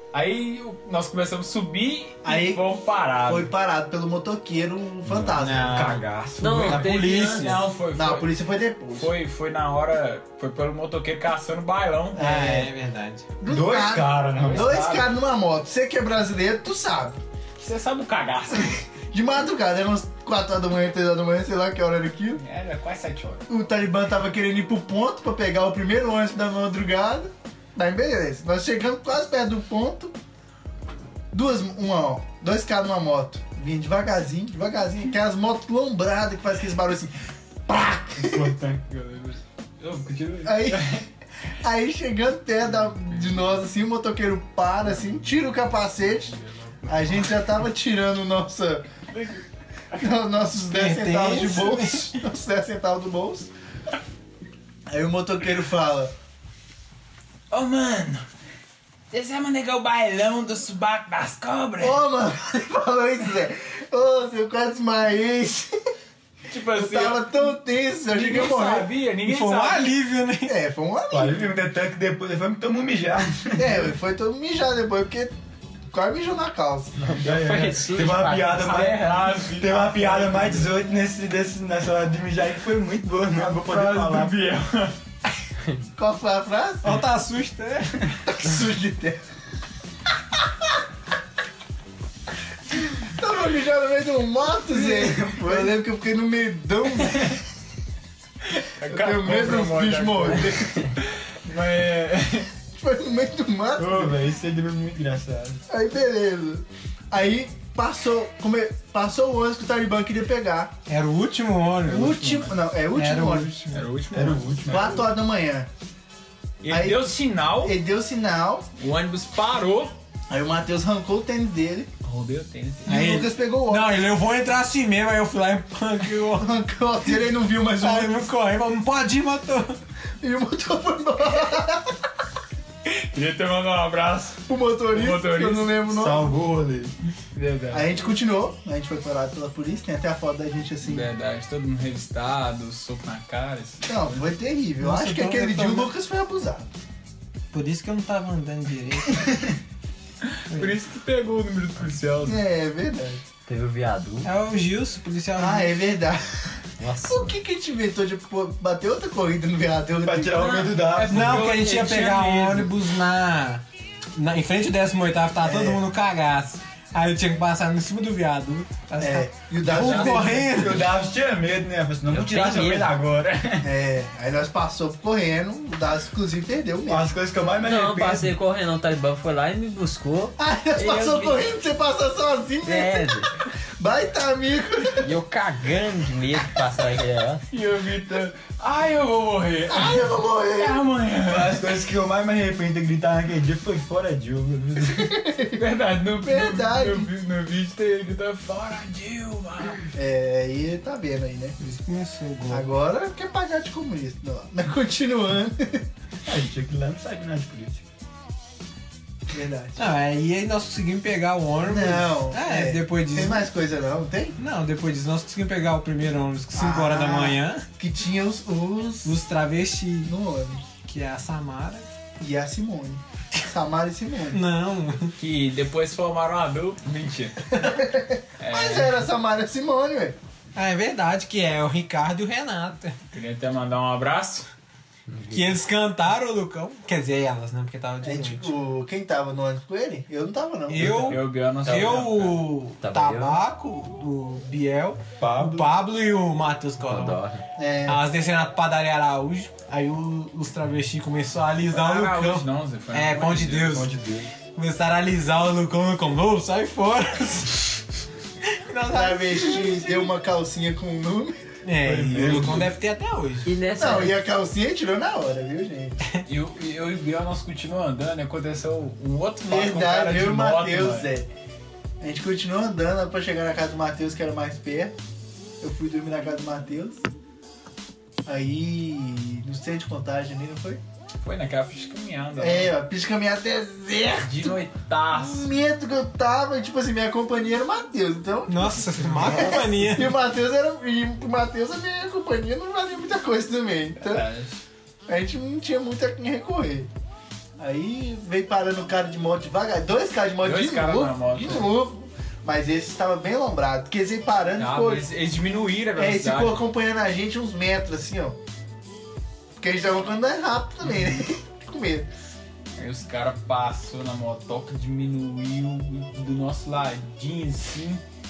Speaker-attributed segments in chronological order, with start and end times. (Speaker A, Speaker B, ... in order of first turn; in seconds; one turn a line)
Speaker A: 0.1-3.5
Speaker B: 2.2-2.6
Speaker B: 3.2-6.0
Speaker C: 5.3-7.7
Speaker A: 5.3-8.3
Speaker D: 6.4-7.5
Speaker B: 7.9-9.1
Speaker A: 8.9-12.3
Speaker B: 12.1-12.7
Speaker C: 12.2-13.3
Speaker B: 13.4-17.2
Speaker E: 13.5-14.8
Speaker A: 14.4-15.1
Speaker A: 17.6-18.8
Speaker B: 19.1-22.4
Speaker A: 22.4-23.4
Speaker B: 23.5-30.1
Speaker B: 31.3-37.1
Speaker B: 37.7-38.5
Speaker E: 38.2-39.4
Speaker A: 39.8-41.0
Speaker B: 40.4-40.9
Speaker B: 41.6-46.4
Speaker A: 46.4-47.2
Speaker B: 46.9-48.8
Speaker A: 49.1-49.4
Speaker B: 50.0-53.5
Speaker C: 50.7-52.2
Speaker B: 54.9-56.1
Speaker A: 57.5-58.2
Speaker A: 59.1-62.0
Speaker B: 61.8-65.7
Speaker A: 66.5-67.5
Speaker B: 66.7-68.9
Speaker A: 68.1-69.9
Speaker C: 69.2-70.6
Speaker B: 70.4-71.5
Speaker E: 71.1-73.9
Speaker B: 73.5-75.3
Speaker B: 75.9-77.2
Speaker E: 77.0-84.4
Speaker D: 77.2-79.0
Speaker A: 78.6-80.7
Speaker A: 83.3-84.9
Speaker B: 86.0-87.0
Speaker C: 86.8-88.1
Speaker B: 88.2-89.2
Speaker B: 93.0-97.4
Speaker E: 94.7-95.7
Speaker A: 98.8-102.5
Speaker B: 98.9-100.9
Speaker B: 102.7-104.2
Speaker E: 103.8-105.6
Speaker B: 105.7-110.7
Speaker C: 110.9-112.2
Speaker B: 111.8-113.6
Speaker A: 111.9-112.6
Speaker C: 112.9-113.8
Speaker A: 113.7-115.0
Speaker E: 114.1-115.1
Speaker B: 114.7-115.7
Speaker A: 116.6-117.8
Speaker B: 116.7-118.7
Speaker A: 118.8-120.0
Speaker B: 120.3-121.9
Speaker A: 122.0-123.0
Speaker B: 122.9-124.0
Speaker C: 122.9-126.5
Speaker B: 126.4-128.3
Speaker C: 127.8-129.8
Speaker B: 130.2-131.9
Speaker A: 132.8-135.8
Speaker B: 134.5-136.3
Speaker E: 135.9-136.9
Speaker A: 137.3-138.0
Speaker B: 137.7-141.1
Speaker A: 140.8-144.2
Speaker B: 143.9-146.7
Speaker C: 144.8-145.9
Speaker C: 147.5-149.3
Speaker A: 150.3-152.4
Speaker C: 150.5-150.8
Speaker B: 152.2-153.2
Speaker D: 153.5-154.3
Speaker C: 154.2-155.8
Speaker B: 155.4-160.7
Speaker D: 156.8-157.4
Speaker E: 160.0-161.5
Speaker A: 160.4-162.7
Speaker C: 161.1-163.6
Speaker C: 164.1-170.9
Speaker B: 165.4-165.8
Speaker B: 169.0-170.7
Speaker A: 169.8-170.2
Speaker E: 169.8-173.7
Speaker D: 172.1-172.9
Speaker B: 173.6-177.1
Speaker E: 176.9-178.3
Speaker D: 177.6-181.4
Speaker B: 180.4-183.3
Speaker D: 182.6-183.3
Speaker B: 183.8-185.1
Speaker D: 185.0-187.4
Speaker A: 187.5-191.8
Speaker B: 189.7-190.8
Speaker E: 191.2-195.1
Speaker B: 194.9-195.6
Speaker A: 195.6-199.9
Speaker B: 196.2-197.1
Speaker B: 199.9-201.6
Speaker C: 201.6-202.7
Speaker B: 202.5-205.8
Speaker E: 206.2-207.8
Speaker B: 209.3-209.9
Speaker C: 209.8-213.5
Speaker B: 211.6-214.3
Speaker C: 214.4-217.6
Speaker B: 216.5-219.2
Speaker C: 219.0-220.1
Speaker B: 220.1-220.6
Speaker C: 220.8-221.9
Speaker B: 222.2-224.4
Speaker C: 224.3-225.1
Speaker A: 225.2-227.4
Speaker B: 227.6-230.2
Speaker A: 228.4-229.0
Speaker C: 230.5-232.9
Speaker A: 233.1-234.5
Speaker D: 235.1-235.4
Speaker C: 235.3-238.5
Speaker B: 238.0-241.2
Speaker C: 240.7-247.2
Speaker A: 240.8-242.4
Speaker D: 242.8-243.4
Speaker E: 245.2-245.6
Speaker D: 246.8-247.4
Speaker B: 247.6-248.0
Speaker C: 247.8-253.9
Speaker A: 251.7-253.8
Speaker E: 253.6-254.3
Speaker C: 254.5-257.8
Speaker C: 258.4-260.1
Speaker B: 258.9-261.4
Speaker C: 261.6-263.5
Speaker E: 261.9-262.7
Speaker B: 261.9-262.5
Speaker D: 263.4-264.2
Speaker B: 263.8-266.0
Speaker A: 266.3-271.1
Speaker B: 269.5-271.3
Speaker B: 272.0-274.9
Speaker B: 275.6-277.0
Speaker B: 278.2-280.8
Speaker A: 281.2-282.7
Speaker B: 282.4-284.6
Speaker A: 284.2-285.5
Speaker B: 285.1-294.2
Speaker C: 288.5-290.2
Speaker A: 294.0-294.6
Speaker B: 295.1-296.9
Speaker B: 297.6-305.1
Speaker A: 300.4-301.7
Speaker A: 304.6-306.6
Speaker B: 306.0-308.4
Speaker B: 309.6-312.1
Speaker A: 312.8-318.0